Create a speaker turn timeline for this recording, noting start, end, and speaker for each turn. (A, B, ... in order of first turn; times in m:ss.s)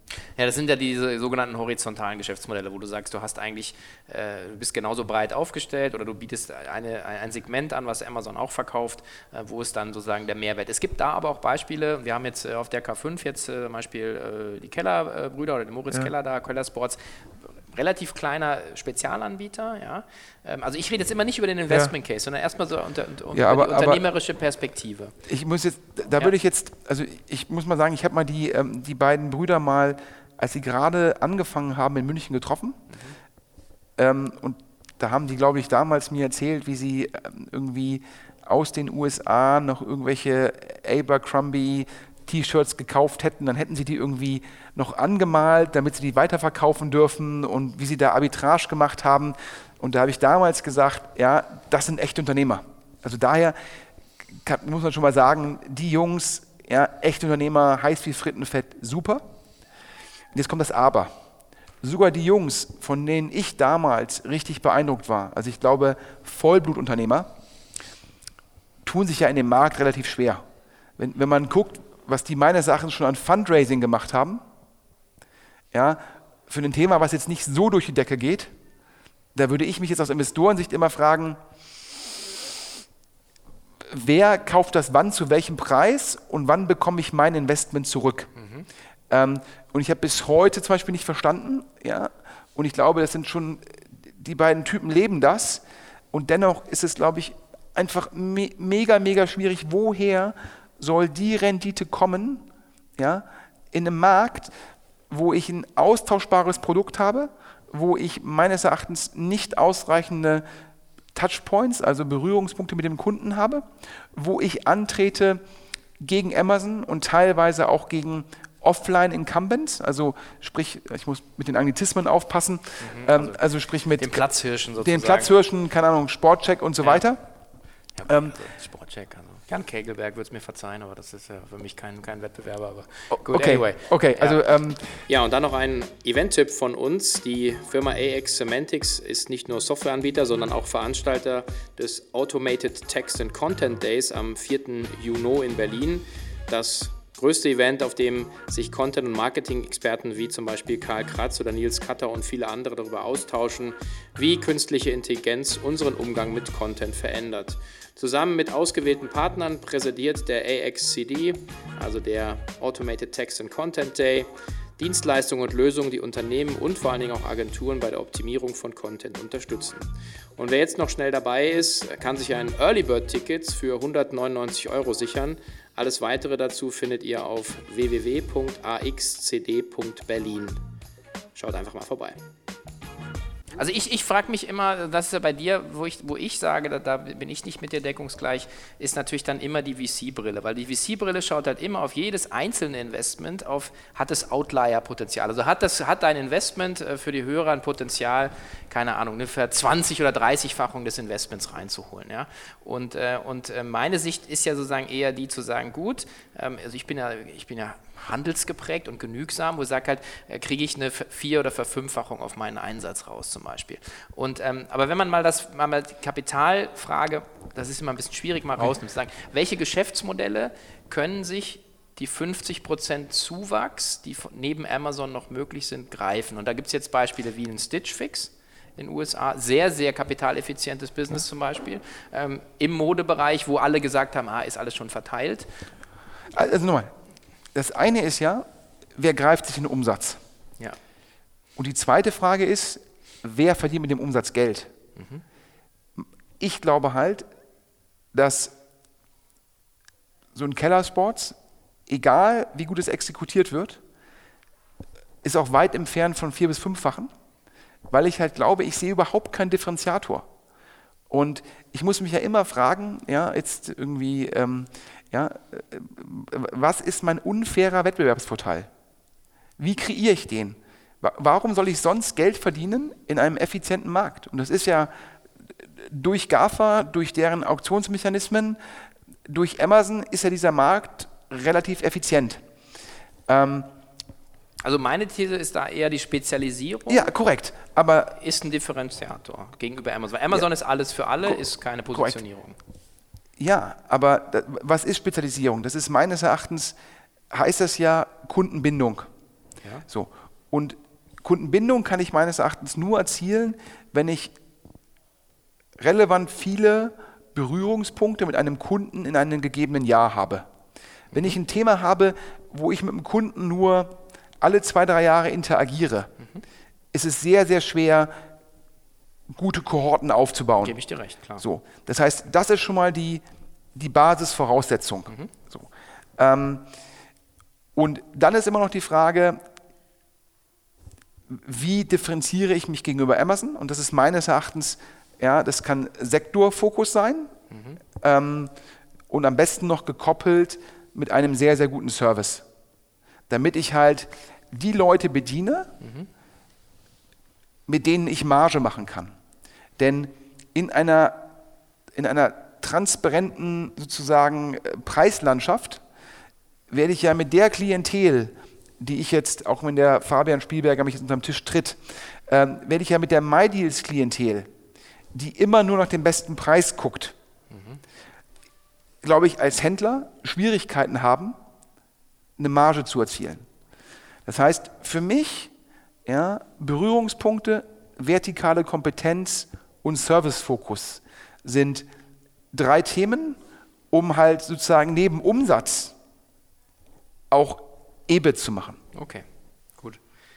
0:00.4-0:17.0 A
0:17.7-0:25.1 A
0:23.3-0:24.0 B
0:25.2-0:32.8 B
0:34.0-0:53.6 B
0:54.3-0:59.2 B
1:00.3-1:01.1 B
1:01.8-1:07.3 B
1:08.8-1:10.4 B
1:11.0-1:14.4 B
1:15.7-1:18.5 B
1:19.3-1:21.4 B
1:23.9-1:28.3 B
1:28.4-1:28.7 A
1:29.1-1:42.4 B
1:43.0-1:44.5 B
1:45.1-1:50.4 B
1:51.1-1:55.4 B
1:56.0-2:04.2 B
2:02.8-2:03.4 A
2:04.0-2:05.3 A
2:04.8-2:07.2 B
2:08.0-2:14.4 A
2:08.1-2:08.4 B
2:13.1-2:14.8 B
2:15.0-3:00.6 A
3:01.3-3:02.2 A
3:03.6-3:55.5 A
3:56.3-3:56.9 B
3:57.5-4:00.2 B
4:01.6-4:04.7 B
4:05.0-4:05.2 A
4:06.0-4:07.3 B
4:08.1-4:08.5 B
4:10.3-4:11.4 B
4:11.9-4:13.8 B
4:15.2-4:17.1 B
4:17.9-4:20.3 B
4:21.1-4:28.7 B
4:29.6-4:34.9 B
4:35.8-4:38.6 B
4:39.3-4:42.4 B
4:43.3-4:43.7 B
4:44.6-4:47.1 A
4:46.9-4:48.2 B
4:48.2-4:52.6 A
4:53.4-4:56.8 B
4:57.3-4:59.1 B
4:59.9-5:04.3 B
5:05.8-5:10.5 B
5:11.1-5:11.4 A
5:11.1-5:16.1 B
5:16.9-5:18.1 B
5:19.3-5:20.8 B
5:20.6-5:21.4 A
5:21.4-5:23.2 B
5:23.7-5:26.6 B
5:27.7-5:29.4 B
5:31.3-5:37.3 B
5:37.5-5:37.8 A
5:38.0-5:38.5 B
5:39.1-5:42.4 B
5:43.3-5:45.7 B
5:45.8-5:46.1 A
5:47.7-5:49.1 B
5:49.8-5:51.3 B
5:51.9-5:55.8 B
5:56.7-6:04.5 B
6:05.1-6:07.1 B
6:07.5-6:07.8 A
6:09.0-6:11.4 B
6:12.4-6:13.4 B
6:14.2-6:15.5 B
6:16.0-6:21.8 B
6:22.5-6:23.4 B
6:23.9-6:25.9 B
6:27.3-6:28.8 B
6:28.9-6:29.2 A